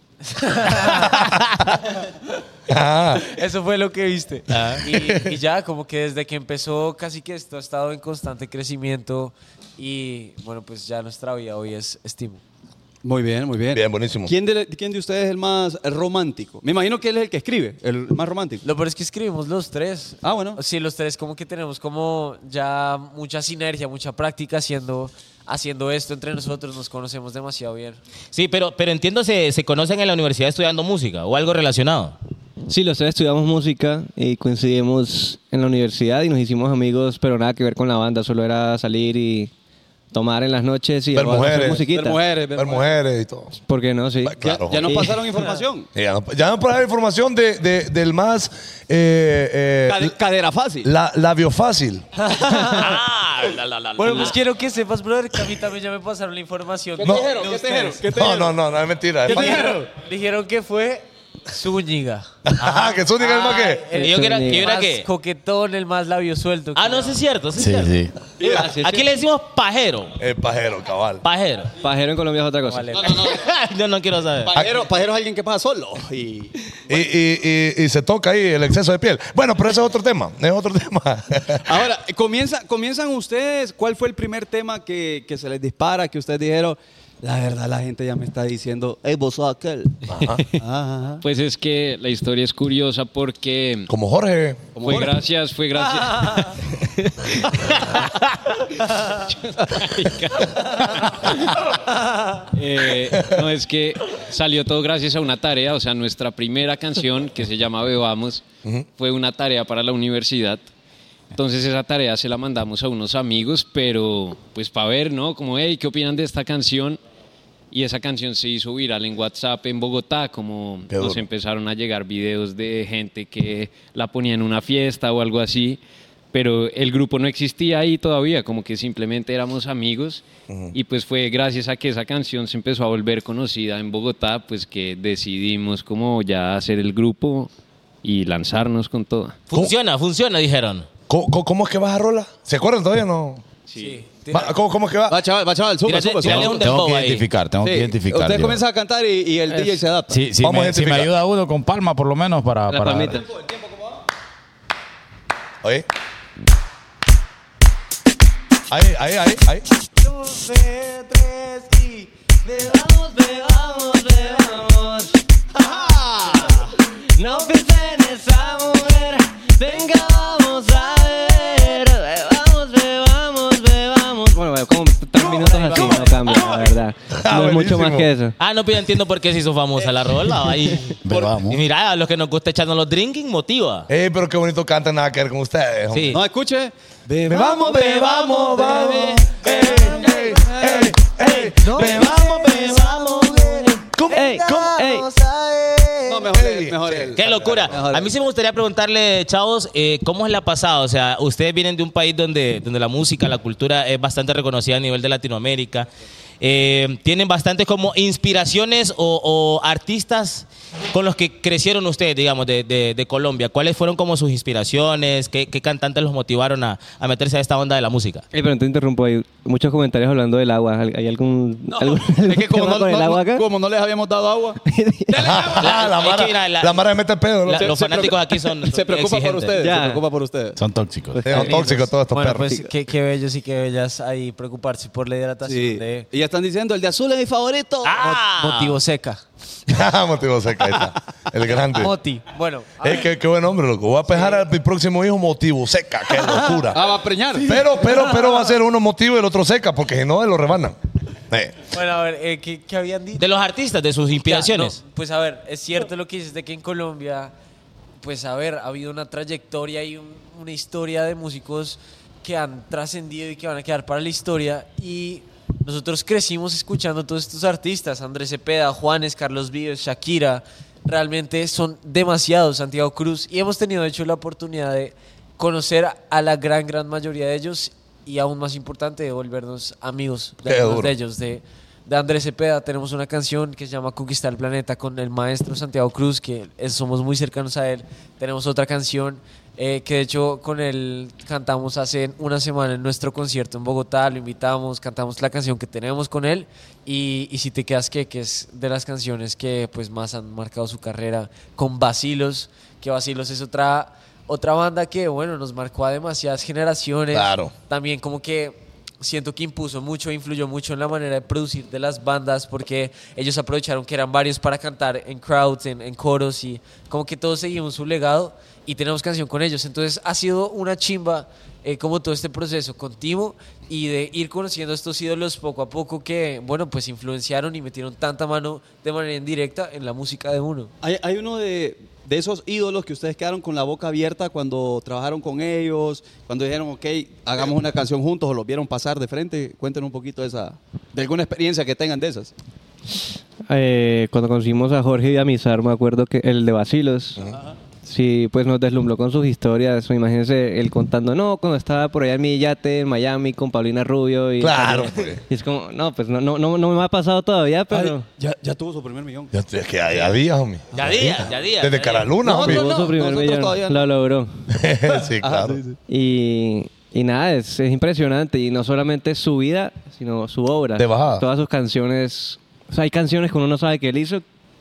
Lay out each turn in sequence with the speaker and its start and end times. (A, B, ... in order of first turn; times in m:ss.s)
0:00.2-0:01.3 A
0:01.0-0:01.6 B
0:02.7-0:03.2 C
0:03.2-0:12.4 A
0:04.5-0:04.8 B
0:04.9-0:05.3 C
0:13.0-0:18.6 D
0:13.7-0:14.3 C
0:18.6-0:28.0 A
0:20.2-0:20.6 D
0:28.3-0:32.1 B
0:32.7-0:39.5 E
0:40.1-0:42.2 E
0:41.1-0:41.8 C
0:41.9-0:42.9 D
0:42.5-0:43.5 C
0:43.6-0:45.2 E
0:44.2-0:44.9 C
0:44.4-0:45.9 D
0:45.9-0:50.1 C
0:49.9-0:50.9 D
0:50.8-0:52.0 C
0:52.2-0:53.0 A
0:52.5-0:54.3 B
0:54.0-0:58.0 A
0:57.0-0:58.6 D
0:57.0-0:57.3 C
0:58.1-0:59.6 C
0:59.2-0:59.9 D
0:59.3-1:02.3 A
1:02.4-1:03.8 C
1:02.6-1:05.0 B
1:03.4-1:07.2 A
1:04.0-1:04.7 E
1:06.8-1:10.1 B
1:07.6-1:08.1 F
1:08.4-1:08.7 D
1:08.4-1:09.1 E
1:10.2-1:11.2 C
1:11.2-1:11.7 B
1:11.8-1:13.0 E
1:12.7-1:13.4 A
1:12.9-1:13.5 D
1:13.3-1:14.6 B
1:14.4-1:16.5 D
1:14.5-1:14.8 C
1:16.9-1:21.8 C
1:21.6-1:29.9 D
1:30.0-1:30.4 C
1:30.2-1:30.6 G
1:30.6-1:31.2 D
1:31.2-1:33.9 G
1:33.9-1:34.6 C
1:34.7-1:35.2 D
1:34.8-1:36.5 G
1:37.5-1:38.0 G
1:38.8-1:41.5 G
1:42.5-1:48.4 G
1:49.0-1:50.6 G
1:51.3-1:57.0 G
1:57.7-2:05.8 G
2:00.9-2:01.2 C
2:06.3-2:17.5 G
2:10.5-2:10.8 C
2:18.0-2:19.4 G
2:19.5-2:20.9 B
2:21.1-2:23.4 C
2:23.7-2:24.5 A
2:24.3-2:25.2 C
2:25.1-2:26.6 D
2:25.8-2:27.2 B
2:26.2-2:28.6 F
2:27.6-2:30.2 D
2:30.1-2:33.2 F
2:30.4-2:31.1 C
2:32.7-2:33.3 E
2:33.4-2:33.7 D
2:38.7-2:39.6 C
2:40.0-2:42.1 A
2:42.4-2:45.2 E
2:45.9-2:46.5 A
2:47.2-2:58.4 E
2:55.2-2:56.6 D
2:55.8-2:56.6 A
2:57.1-2:58.1 C
2:58.4-3:03.9 B
3:01.0-3:01.6 F
3:03.9-3:06.2 C
3:05.9-3:06.2 B
3:06.1-3:10.9 D
3:07.2-3:12.8 C
3:08.2-3:16.4 A
3:11.6-3:15.1 E
3:13.9-3:14.7 C
3:16.1-3:18.1 D
3:16.3-3:17.8 C
3:17.2-3:25.9 B
3:26.4-3:38.2 B
3:38.3-3:43.5 E
3:41.7-3:45.9 D
3:44.6-3:45.3 E
3:45.2-3:47.7 C
3:45.6-3:46.9 B
3:47.4-3:49.6 B
3:47.6-3:50.6 D
3:49.6-3:50.0 E
3:50.6-3:51.4 F
3:51.1-3:51.9 E
3:51.3-3:52.5 C
3:52.1-3:56.1 A
3:55.4-3:58.2 D
3:57.8-3:58.8 B
3:58.3-3:59.2 A
3:59.7-4:01.9 C
4:01.7-4:03.1 A
4:02.8-4:06.8 C
4:04.1-4:04.4 A
4:06.2-4:06.6 A
4:06.7-4:07.5 D
4:07.4-4:08.5 A
4:07.4-4:10.8 C
4:11.3-4:11.6 C
4:11.7-4:13.2 A
4:13.2-4:14.8 B
4:14.2-4:17.3 A
4:18.0-5:30.7 A
4:40.4-4:40.9 C
5:07.1-5:07.5 C
5:30.8-5:42.3 D
5:43.5-5:47.2 E
5:47.3-5:47.6 D
5:47.8-5:58.0 E
5:54.4-5:55.2 C
5:57.7-5:59.3 D
5:59.3-6:02.7 C
6:00.7-6:02.1 B
6:02.2-6:03.9 D
6:02.3-6:04.3 E
6:04.5-6:05.6 C
6:04.8-6:05.8 D
6:05.9-6:14.2 E
6:10.8-6:11.2 C